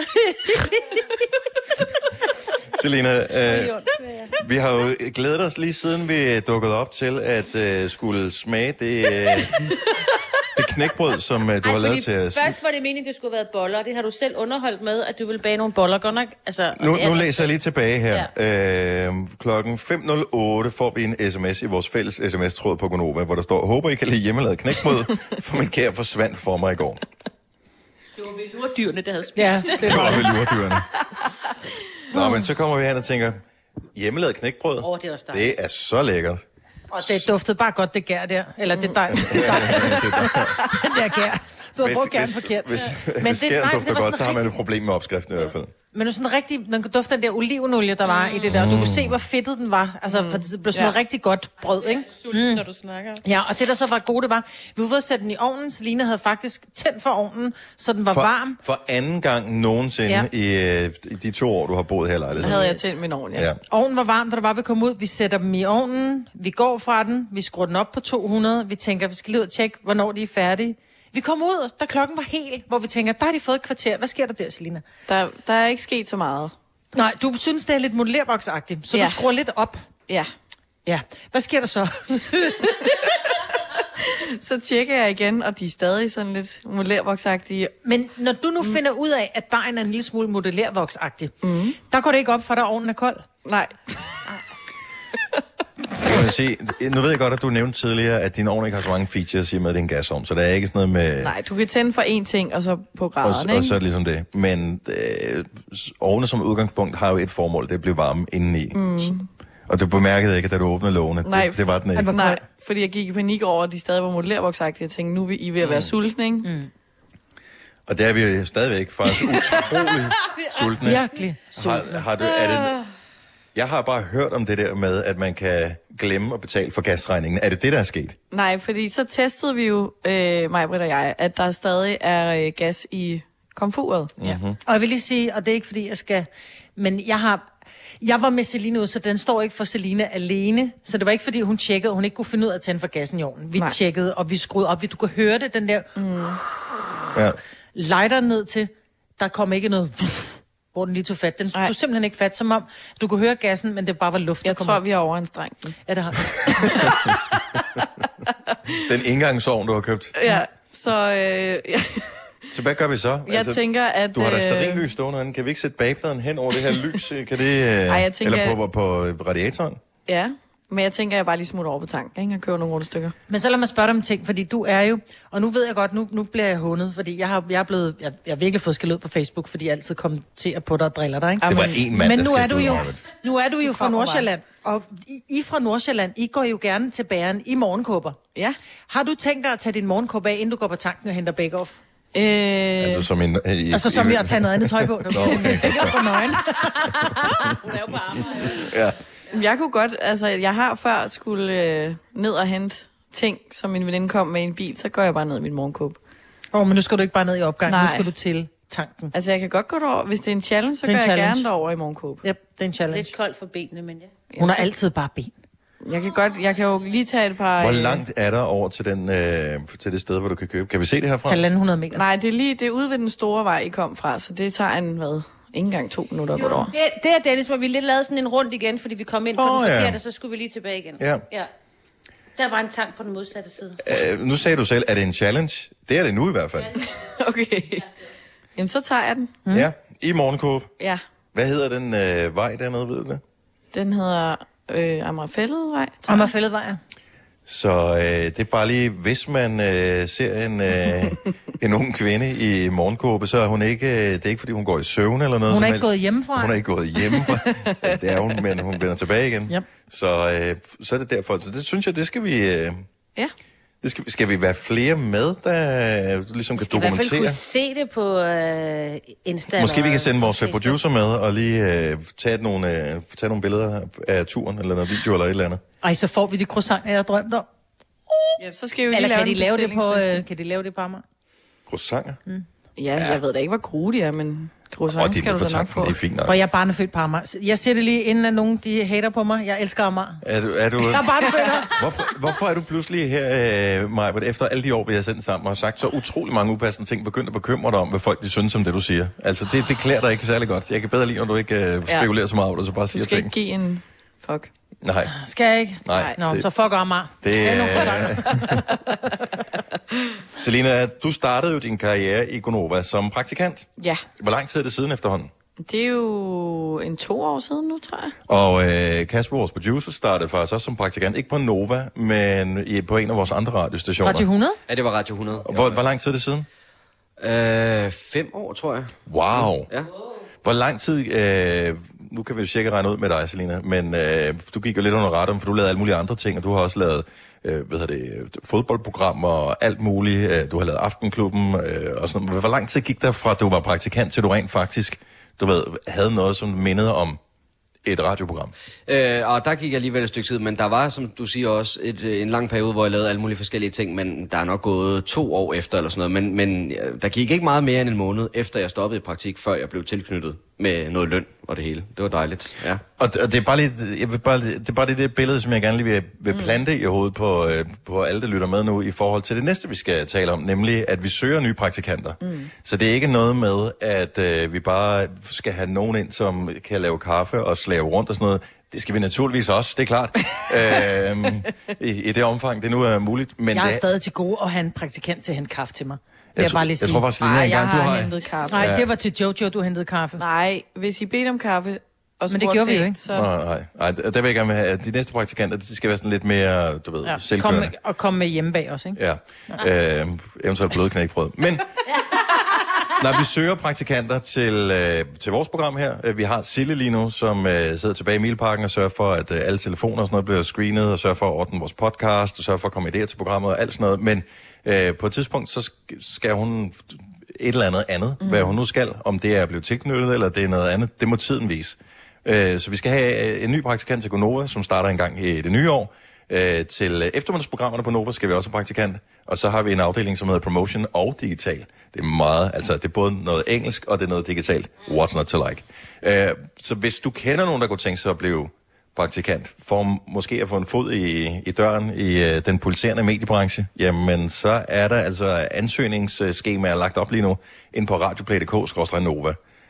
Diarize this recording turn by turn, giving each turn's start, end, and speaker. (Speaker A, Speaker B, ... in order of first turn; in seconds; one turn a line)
Speaker A: 2.7-3.8
Speaker B: 3.5-4.3
Speaker A: 4.4-9.6
Speaker A: 10.6-12.6
Speaker B: 11.6-17.5
Speaker A: 16.8-27.0
Speaker B: 28.2-30.2
Speaker C: 29.4-30.2
Speaker A: 29.8-30.9
Speaker A: 32.1-33.4
Speaker A: 34.0-36.4
Speaker B: 34.8-35.5
Speaker C: 36.9-44.5
Speaker A: 39.1-40.6
Speaker D: 39.5-40.0
Speaker A: 41.8-45.7
Speaker C: 45.9-52.6
Speaker A: 48.5-49.2
Speaker D: 50.1-51.0
Speaker B: 51.8-53.2
Speaker C: 53.2-58.6
Speaker A: 58.1-62.8
Speaker D: 62.4-63.5
Speaker A: 63.3-63.6
Speaker C: 63.7-74.8
Speaker D: 75.1-76.5
Speaker C: 76.9-79.8
Speaker D: 78.9-79.2
Speaker C: 80.9-82.7
Speaker D: 82.9-83.2
Speaker D: 84.0-87.7
Speaker C: 87.8-91.3
Speaker D: 91.4-91.8
Speaker C: 91.8-93.3
Speaker D: 93.5-93.7
Speaker A: 96.0-101.4
Speaker D: 101.2-103.8
Speaker A: 103.2-109.1
Speaker D: 108.8-109.3
Speaker A: 109.7-112.1
Speaker D: 111.2-116.5
Speaker C: 112.0-112.4
Speaker A: 115.6-115.9
Speaker C: 116.4-116.7
Speaker A: 117.9-122.8
Speaker C: 120.8-122.0
Speaker B: 122.4-122.7
Speaker A: 123.5-128.2
Speaker D: 128.3-134.1
Speaker A: 134.2-134.6
Speaker C: 134.3-137.5
Speaker C: 138.0-145.9
Speaker D: 146.0-146.4
Speaker C: 147.8-154.8
Speaker D: 154.4-155.8
Speaker C: 155.9-156.9
Speaker D: 156.7-157.2
Speaker A: 158.8-160.2
Speaker D: 160.2-162.2
Speaker A: 162.5-169.8
Speaker D: 163.3-164.8
Speaker D: 167.9-168.6
Speaker D: 170.1-173.2
Speaker C: 173.3-188.2
Speaker D: 181.4-181.8
Speaker A: 181.4-183.0
Speaker D: 183.7-184.3
Speaker C: 188.9-191.8
Speaker D: 192.1-193.1
Speaker A: 192.8-196.1
Speaker C: 193.7-197.1
Speaker B: 197.4-198.7
Speaker A: 198.4-199.0
Speaker D: 199.3-206.0
Speaker C: 206.5-209.1
Speaker D: 207.7-208.1
Speaker D: 209.1-212.2
Speaker C: 210.8-211.5
Speaker C: 212.2-213.1
Speaker B: 212.9-214.1
Speaker D: 214.3-214.7
Speaker C: 214.4-215.3
Speaker D: 215.8-218.0
Speaker A: 217.6-221.4
Speaker C: 221.3-222.0
Speaker D: 221.9-226.7
Speaker B: 226.3-231.5
Speaker A: 229.4-230.0
Speaker A: 231.0-231.2
Speaker B: 232.4-233.8
Speaker A: 233.8-236.8
Speaker D: 237.0-237.8
Speaker D: 238.6-239.4
Speaker A: 239.5-240.7
Speaker A: 241.3-243.2
Speaker D: 243.7-246.3
Speaker C: 246.1-246.8
Speaker A: 247.5-262.9
Speaker C: 255.5-256.6
Speaker A: 263.8-267.4
Speaker B: 266.6-270.8
Speaker A: 269.5-275.6
Speaker C: 275.8-277.5
Speaker D: 278.4-280.2
Speaker C: 278.9-281.0
Speaker A: 281.7-282.2
Speaker D: 282.8-285.9
Speaker A: 282.9-283.2
Speaker A: 284.9-286.4
Speaker C: 286.2-290.2
Speaker A: 290.2-291.1
Speaker C: 290.8-291.7
Speaker A: 291.7-303.3
Speaker D: 302.9-304.5
Speaker A: 304.8-305.1
Speaker C: 305.1-308.7
Speaker A: 305.9-306.5
Speaker A: 307.2-308.6
Speaker A: 310.4-313.7
Speaker A: 314.2-315.3
Speaker D: 315.6-318.1
Speaker A: 318.3-324.3
Speaker C: 324.0-324.6
Speaker E: 324.7-325.8
Speaker A: 325.4-326.5
Speaker E: 327.2-329.9
Speaker A: 329.1-329.7
Speaker A: 330.4-347.2
Speaker A: 347.9-348.5
Speaker E: 348.9-362.8
Speaker A: 363.0-383.9
Speaker D: 366.3-366.6
Speaker D: 372.2-372.5
Speaker C: 383.5-387.1
Speaker A: 386.4-388.9
Speaker D: 387.2-388.8
Speaker C: 388.5-390.2
Speaker D: 390.2-393.3
Speaker C: 392.3-393.0
Speaker A: 393.1-397.8
Speaker C: 397.1-399.0
Speaker A: 399.0-401.7
Speaker A: 402.9-449.4
Speaker D: 418.2-418.6